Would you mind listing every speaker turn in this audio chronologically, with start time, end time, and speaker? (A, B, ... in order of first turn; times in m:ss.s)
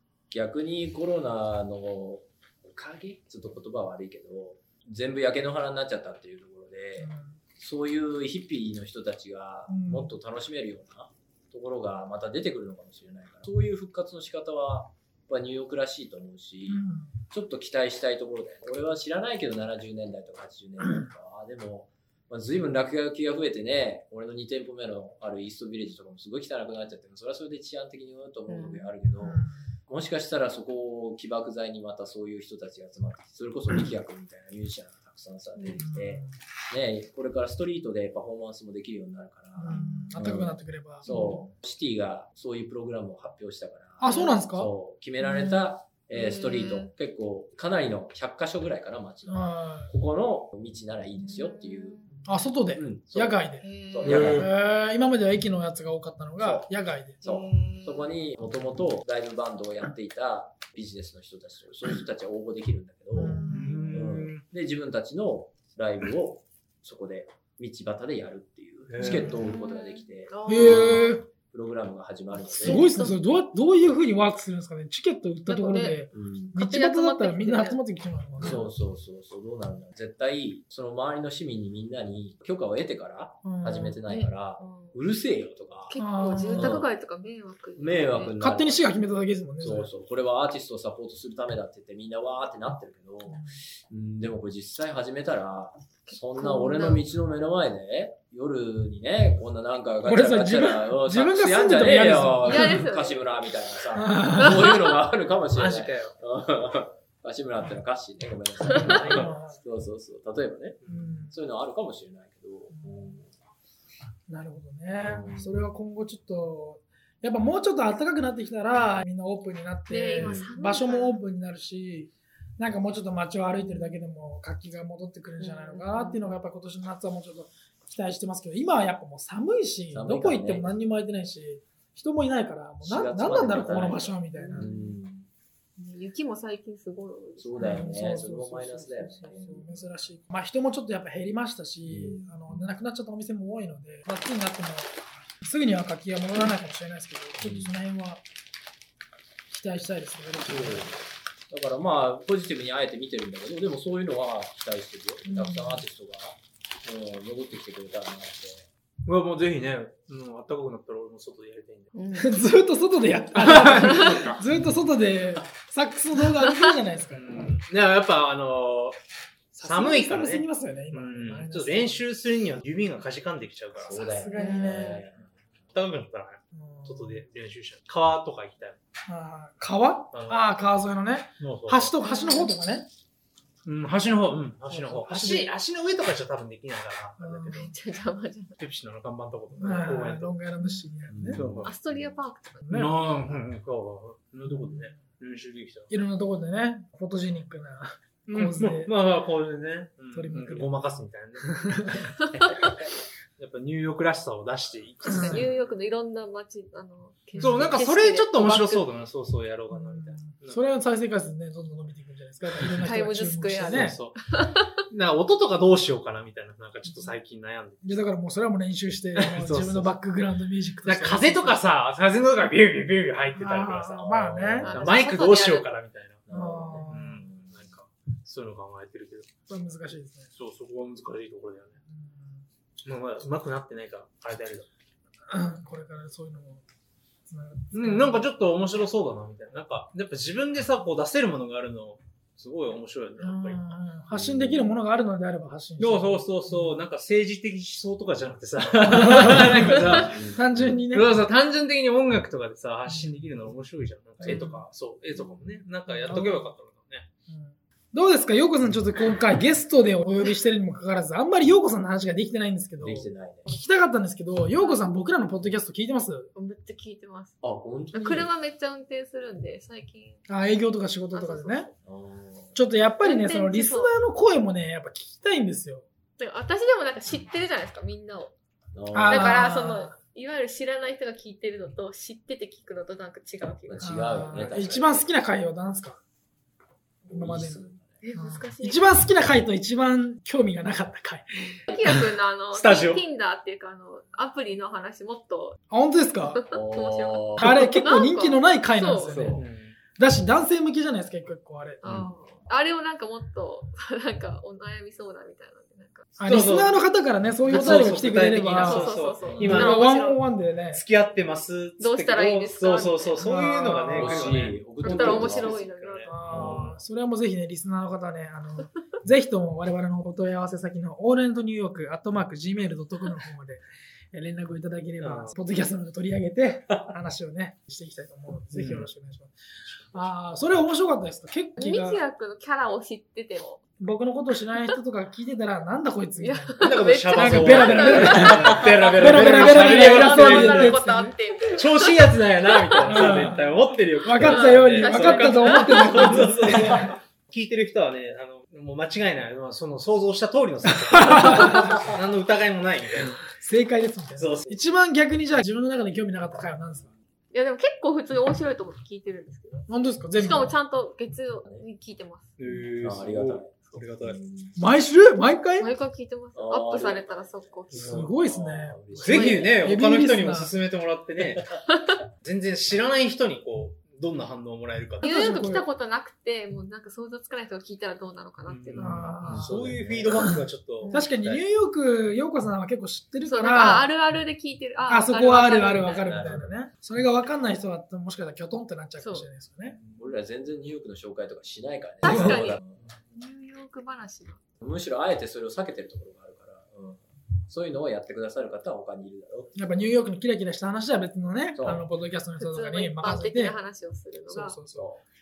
0:00.3-0:52.0 A
0:07.0-0:07.4 B
0:09.7-0:10.1 B
0:16.7-0:17.1 B
0:28.5-0:28.8 C
0:29.2-0:29.6 B
0:35.6-0:35.8 C
0:35.8-0:36.3 B
0:39.6-0:41.4 B
0:39.7-0:40.2 C
0:41.1-0:41.4 C
0:44.0-0:45.6 B
0:44.0-0:44.4 C
0:46.1-0:46.9 C
0:49.3-0:49.9 B
0:51.2-0:52.1 C
0:52.2-0:57.2 B
0:52.8-0:54.5 A
0:53.6-0:54.2 C
0:54.0-0:54.5 D
0:56.4-0:56.7 A
0:57.2-1:12.8 A
0:57.2-0:58.1 C
1:03.1-1:03.9 B
1:03.3-1:03.9 C
1:03.5-1:04.4 D
1:08.9-1:09.4 D
1:09.0-1:09.4 B
1:09.1-1:11.2 C
1:10.4-1:11.2 B
1:12.5-1:13.2 C
1:12.6-1:18.7 B
1:15.5-1:17.8 C
1:16.1-1:16.5 A
1:18.4-1:26.0 A
1:23.4-1:24.0 B
1:24.1-1:25.0 C
1:25.9-1:28.4 C
1:26.0-1:26.8 B
1:26.5-1:26.9 A
1:27.8-1:28.9 A
1:28.4-1:29.9 B
1:29.6-1:53.3 A
1:36.1-1:37.0 C
1:40.0-1:42.8 B
1:42.4-1:43.2 C
1:44.0-1:44.7 B
1:45.5-1:46.2 D
1:48.8-1:49.3 D
1:48.9-1:49.6 B
1:50.8-1:51.1 D
1:50.9-1:51.3 B
1:52.7-1:53.2 B
1:54.3-2:14.7 B
1:55.0-1:55.6 A
1:59.9-2:01.2 C
2:00.2-2:00.5 A
2:05.4-2:06.3 C
2:09.9-2:10.7 A
2:12.8-2:15.3 A
2:14.3-2:15.0 C
2:15.8-2:17.9 C
2:17.4-2:19.6 A
2:17.6-2:28.2 B
2:19.4-2:19.8 C
2:21.9-2:22.7 A
2:27.4-2:27.7 A
2:29.5-2:31.0 B
2:30.4-2:31.0 A
2:31.5-2:38.7 A
2:35.3-2:35.8 B
2:39.0-2:41.9 D
2:41.9-2:42.4 C
2:42.1-2:47.4 B
2:43.4-2:44.4 D
2:44.0-2:44.3 C
2:46.4-2:46.7 C
2:47.1-2:49.0 D
2:49.5-2:52.0 B
2:49.6-2:54.2 D
2:53.8-2:55.1 B
2:53.9-2:55.2 A
2:54.3-2:55.0 C
2:55.7-2:58.8 D
2:56.5-2:57.2 B
2:59.1-3:02.9 B
3:00.1-3:00.4 D
3:01.4-3:01.9 D
3:02.0-3:02.5 C
3:03.6-3:07.7 D
3:04.7-3:05.5 B
3:07.2-3:07.7 B
3:07.5-3:08.6 C
3:08.6-3:10.3 D
3:09.6-3:11.5 B
3:10.6-3:10.9 C
3:11.1-3:12.1 A
3:11.3-3:11.7 D
3:11.6-3:12.6 C
3:12.6-3:13.0 B
3:12.7-3:15.9 D
3:14.5-3:15.0 B
3:15.9-3:18.9 B
3:18.2-3:21.8 D
3:20.1-3:20.7 B
3:21.4-3:22.1 B
3:23.4-3:25.6 D
3:25.0-3:28.8 C
3:25.0-3:25.4 B
3:27.4-3:27.8 B
3:27.4-3:30.6 D
3:29.7-3:34.0 B
3:32.6-3:34.7 C
3:33.6-3:34.2 D
3:34.9-3:37.8 D
3:37.8-3:41.6 B
3:39.2-3:39.9 D
3:40.8-3:46.2 D
3:43.4-3:44.8 B
3:44.2-3:44.7 A
3:44.6-3:45.7 C
3:46.3-3:47.6 A
3:46.3-3:47.2 B
3:46.9-3:49.3 D
3:49.5-3:50.3 B
3:50.4-3:51.8 D
3:51.9-3:52.4 B
3:52.8-3:54.7 D
3:55.3-3:56.6 B
3:57.3-3:58.2 B
3:57.7-4:03.6 D
4:03.2-4:06.8 B
4:04.1-4:04.7 A
4:05.8-4:10.2 D
4:08.9-4:11.1 B
4:09.8-4:10.8 A
4:10.9-4:17.1 D
4:12.9-4:13.2 B
4:14.2-4:14.6 B
4:15.9-4:16.5 B
4:17.3-4:26.3 B
4:22.8-4:23.4 A
4:24.5-4:24.9 C
4:26.3-4:27.4 C
4:27.4-4:28.3 A
4:27.9-4:30.2 C
4:30.3-4:31.7 B
4:31.1-4:31.7 C
4:31.8-4:32.6 A
4:32.5-4:35.8 B
4:33.0-4:34.0 C
4:36.2-4:38.3 C
4:38.7-4:39.4 A
4:38.9-4:39.9 B
4:39.1-4:44.2 C
4:43.7-4:45.1 A
4:43.8-4:46.0 B
4:47.1-4:47.9 A
4:47.1-4:47.6 B
4:48.0-4:48.9 C
4:48.1-4:52.0 B
4:51.7-4:55.6 C
4:52.5-4:53.0 D
4:55.7-4:56.4 B
4:56.3-4:59.2 C
4:56.5-4:57.7 A
4:57.4-4:59.4 B
4:59.0-4:59.4 A
4:59.3-4:59.8 D
5:00.0-5:01.8 B
5:01.8-5:06.2 C
5:01.8-5:02.1 A
5:06.2-5:10.8 B
5:06.2-5:06.8 D
5:07.4-5:09.9 D
5:07.4-5:10.2 C
5:09.2-5:09.7 A
5:10.7-5:15.5 D
5:11.8-5:13.2 C
5:13.2-5:15.5 B
5:13.9-5:16.7 A
5:14.8-5:16.2 C
5:16.1-5:29.3 B
5:16.3-5:16.8 D
5:25.0-5:25.4 D
5:28.5-5:28.9 D
5:29.9-5:32.0 B
5:31.6-5:33.6 C
5:33.8-5:41.1 B
5:36.2-5:43.4 C
5:36.6-5:40.9 D
5:41.5-5:53.2 D
5:42.8-5:46.9 B
5:44.1-5:46.6 C
5:50.9-5:51.8 B
5:53.4-5:56.9 B
5:54.2-5:54.6 D
5:57.3-6:02.4 C
5:59.7-6:00.5 B
6:02.4-6:04.2 D
6:02.8-6:04.6 A
6:04.6-6:05.7 B
6:05.6-6:08.1 C
6:06.3-6:09.7 A
6:07.8-6:10.5 B
6:09.0-6:11.4 D
6:12.2-6:15.2 D
6:15.0-6:15.7 B
6:15.0-6:19.2 C
6:18.5-6:20.9 D
6:18.8-6:19.6 B
6:19.2-6:20.3 A
6:20.2-6:21.1 C
6:20.9-6:23.9 B
6:23.2-6:26.1 C
6:24.9-6:29.8 B
6:26.0-6:26.5 A
6:29.0-6:29.3 C
6:29.8-6:32.8 A
6:32.0-6:32.6 C
6:32.0-6:32.4 B
6:33.1-6:34.4 C
6:34.6-6:39.6 A
6:39.5-6:43.6 B
6:41.5-6:41.8 A
6:42.4-6:44.6 C
6:44.3-6:44.9 B
6:44.7-6:45.0 A